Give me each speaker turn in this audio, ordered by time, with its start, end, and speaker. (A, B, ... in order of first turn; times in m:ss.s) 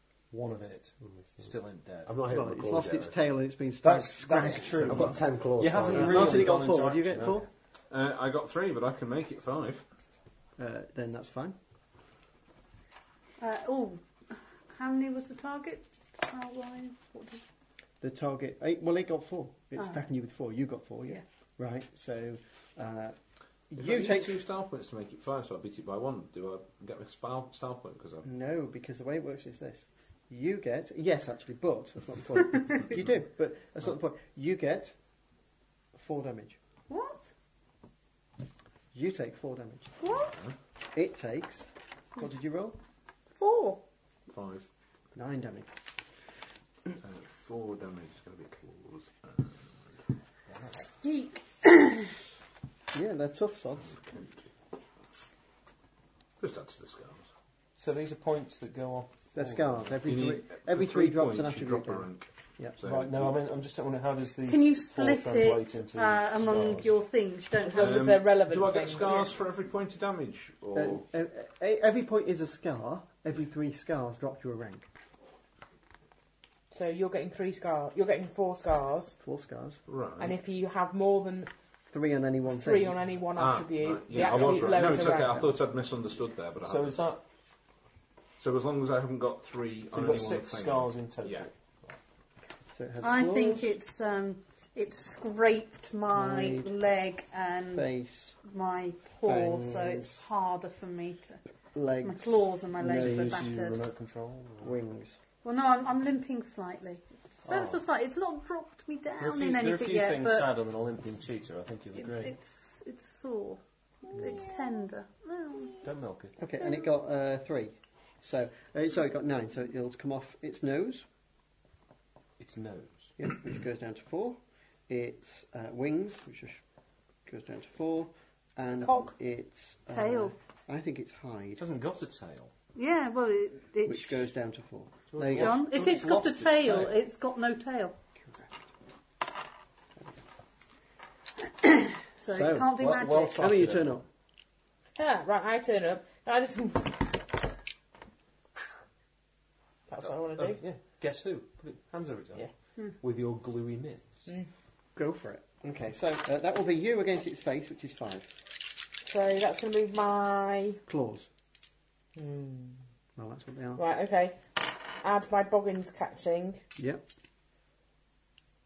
0:00.3-0:02.2 A
0:02.1-0:03.1 B
0:02.3-0:05.2 C
0:03.8-0:07.5 A
0:04.8-0:06.5 B
0:05.9-0:07.5 C
0:07.9-0:09.8 D
0:10.6-0:11.6 C
0:13.4-0:14.0 E
0:14.7-0:17.4 E
0:18.0-0:23.2 C
0:23.7-0:24.4 C
0:23.8-0:28.3 D
0:28.2-0:35.0 C
0:36.0-0:36.6 C
0:36.9-0:37.2 E
0:38.9-0:40.0 C
0:40.0-0:40.3 E
0:40.2-0:40.6 D
0:41.0-0:42.8 C
0:43.4-0:43.8 E
0:44.3-0:44.7 D
0:45.2-0:45.7 C
0:47.0-0:49.6 D
0:51.0-0:51.7 E
0:52.9-0:54.0 C
0:53.8-0:54.4 D
0:56.4-0:57.2 D
0:57.8-1:00.0 A
0:59.4-1:02.1 C
1:00.0-1:02.3 D
1:02.8-1:03.5 D
1:02.8-1:07.0 A
1:04.4-1:08.2 E
1:07.6-1:09.1 F
1:07.7-1:11.0 D
1:09.0-1:09.3 E
1:10.7-1:14.9 C
1:16.7-1:19.2 F
1:19.2-1:19.8 C
1:19.9-1:20.4 D
1:20.2-1:21.5 F
1:21.9-1:23.0 C
1:22.6-1:25.5 F
1:23.4-1:27.0 D
1:26.6-1:27.2 A
1:28.4-1:31.5 D
1:29.9-1:31.5 A
1:32.8-1:33.8 C
1:33.0-1:37.9 E
1:36.1-1:36.7 C
1:37.7-1:38.4 C
1:38.4-1:41.4 E
1:39.2-1:40.3 C
1:41.8-1:43.5 C
1:42.0-1:43.8 E
1:42.8-1:44.8 A
1:44.6-1:45.2 C
1:45.4-1:50.5 E
1:47.4-1:47.8 A
1:49.2-1:52.4 A
1:52.0-1:55.9 E
1:54.2-1:54.4 A
1:55.8-1:56.4 A
1:56.4-2:01.1 C
1:56.6-1:56.9 E
2:02.4-2:03.1 A
2:03.2-2:04.4 C
2:04.9-2:06.6 C
2:07.3-2:11.6 C
2:08.8-2:09.1 F
2:09.9-2:10.3 E
2:11.6-2:12.5 A
2:12.8-2:14.2 E
2:13.8-2:15.6 C
2:15.1-2:17.0 A
2:15.3-2:18.0 E
2:21.6-2:23.5 E
2:22.3-2:22.7 C
2:22.7-2:24.0 A
2:23.4-2:24.0 C
2:25.0-2:27.2 F
2:29.9-2:30.6 F
2:30.0-2:32.5 A
2:33.0-2:34.3 A
2:35.0-2:38.3 C
2:39.0-2:40.8 F
2:40.9-2:41.3 C
2:42.2-2:42.8 F
2:43.2-2:43.8 C
2:43.8-2:46.6 F
2:46.8-2:47.0 C